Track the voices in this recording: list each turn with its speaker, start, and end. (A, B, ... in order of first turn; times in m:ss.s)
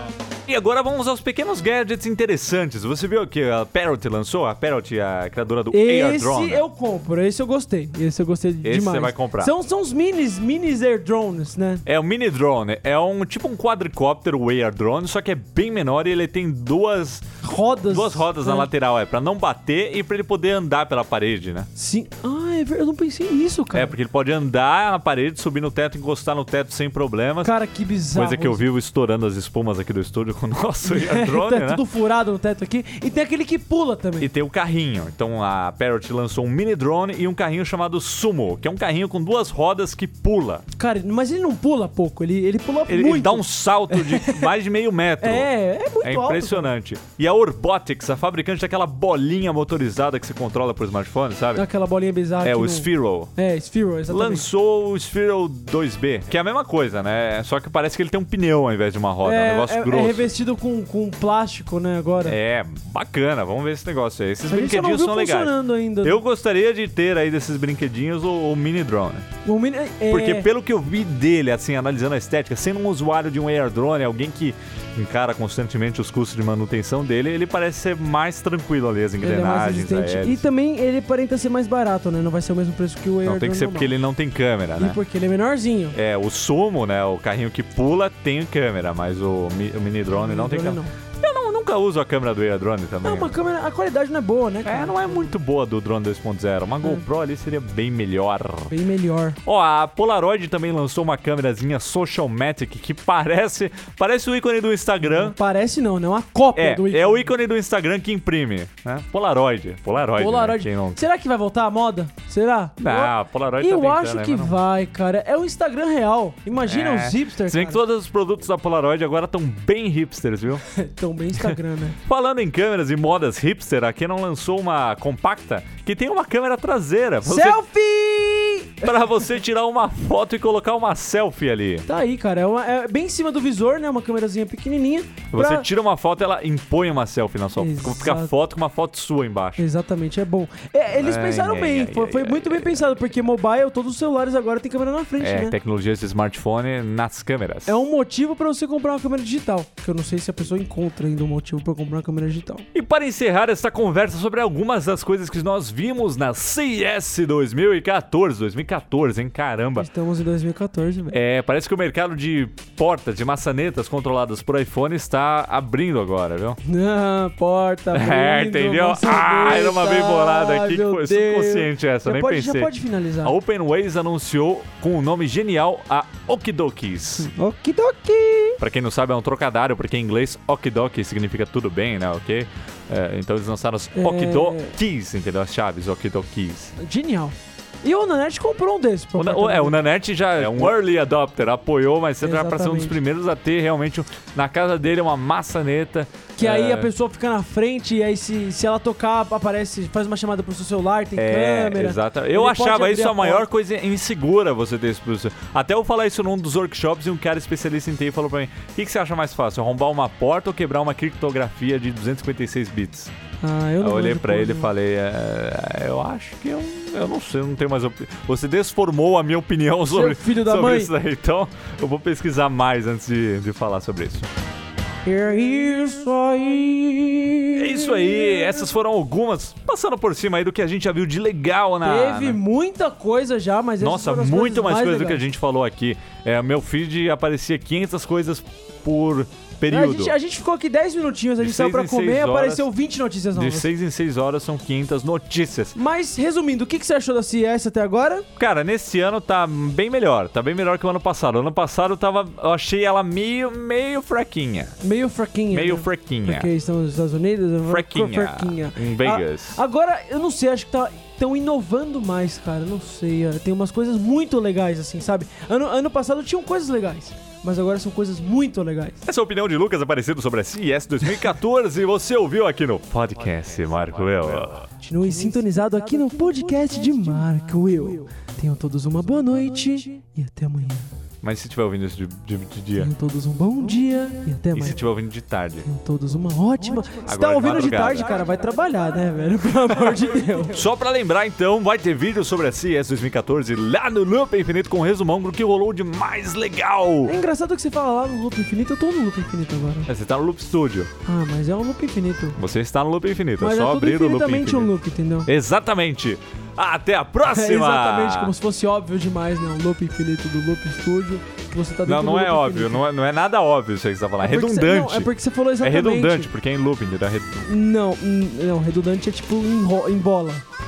0:00.5-0:06.6 A
0:05.7-0:11.8 B
0:08.6-0:09.5 A
0:11.9-0:21.7 A
0:17.4-0:18.7 B
0:21.8-0:23.9 B
0:23.7-0:27.5 A
0:27.4-0:28.6 B
0:28.1-0:31.8 A
0:30.8-0:34.3 B
0:34.2-0:40.6 A
0:40.8-0:44.5 B
0:42.9-0:45.5 A
0:45.2-0:46.7 B
0:46.0-0:51.6 A
0:51.6-0:54.5 B
0:52.4-0:53.3 A
0:54.1-1:00.3 A
0:59.2-1:02.4 B
1:02.2-1:09.3 A
1:04.5-1:06.2 B
1:09.4-1:10.5 B
1:10.1-1:20.5 A
1:19.2-1:24.0 B
1:23.2-1:25.0 A
1:24.8-1:26.0 B
1:26.0-1:33.4 A
1:30.1-1:30.9 B
1:33.0-1:35.3 B
1:34.6-1:38.7 A
1:38.7-1:39.4 B
1:39.4-1:45.4 A
1:45.0-1:47.3 B
1:46.6-1:51.0 A
1:50.2-1:57.8 B
1:52.8-1:54.6 A
1:56.6-2:00.6 A
2:00.7-2:02.0 B
2:01.3-2:07.6 A
2:07.3-2:09.2 B
2:08.8-2:11.9 A
2:11.9-2:15.7 B
2:15.3-2:19.6 A
2:17.6-2:18.3 B
2:19.6-2:25.6 B
2:21.0-2:22.9 A
2:25.2-2:27.8 A
2:27.7-2:32.7 B
2:32.7-2:39.9 A
2:39.8-2:41.2 B
2:41.1-2:46.6 A
2:46.6-2:53.4 B
2:47.9-2:52.7 A
2:53.2-2:57.3 A
2:57.2-2:58.6 B
2:58.6-3:06.7 A
3:04.0-3:04.8 B
3:06.8-3:09.8 B
3:09.2-3:16.9 A
3:10.4-3:10.7 B
3:12.2-3:13.0 B
3:16.4-3:23.5 B
3:21.2-3:33.1 A
3:33.4-3:34.7 B
3:33.8-3:44.3 A
3:39.9-3:40.9 B
3:45.0-3:48.7 B
3:47.6-3:52.4 A
3:51.8-3:55.2 B
3:53.8-4:00.2 A
3:59.7-4:03.7 B
4:01.4-4:02.7 A
4:03.4-4:05.8 A
4:05.8-4:08.3 B
4:08.4-4:14.7 A
4:14.8-4:29.0 B
4:15.5-4:16.5 A
4:17.6-4:19.6 A
4:29.0-4:34.7 A
4:34.8-4:40.9 B
4:41.2-4:42.9 A
4:42.8-4:44.8 B
4:44.5-4:45.7 A
4:45.6-4:50.6 B
4:47.0-4:48.2 A
4:50.5-4:57.2 A
4:57.0-4:59.9 B
4:59.9-5:00.9 A
5:01.1-5:02.4 B
5:02.4-5:04.7 A
5:03.4-5:05.3 B
5:05.3-5:08.4 A
5:07.3-5:12.8 B
5:11.8-5:15.1 A
5:14.2-5:16.3 B
5:15.6-5:17.5 A
5:17.5-5:20.4 B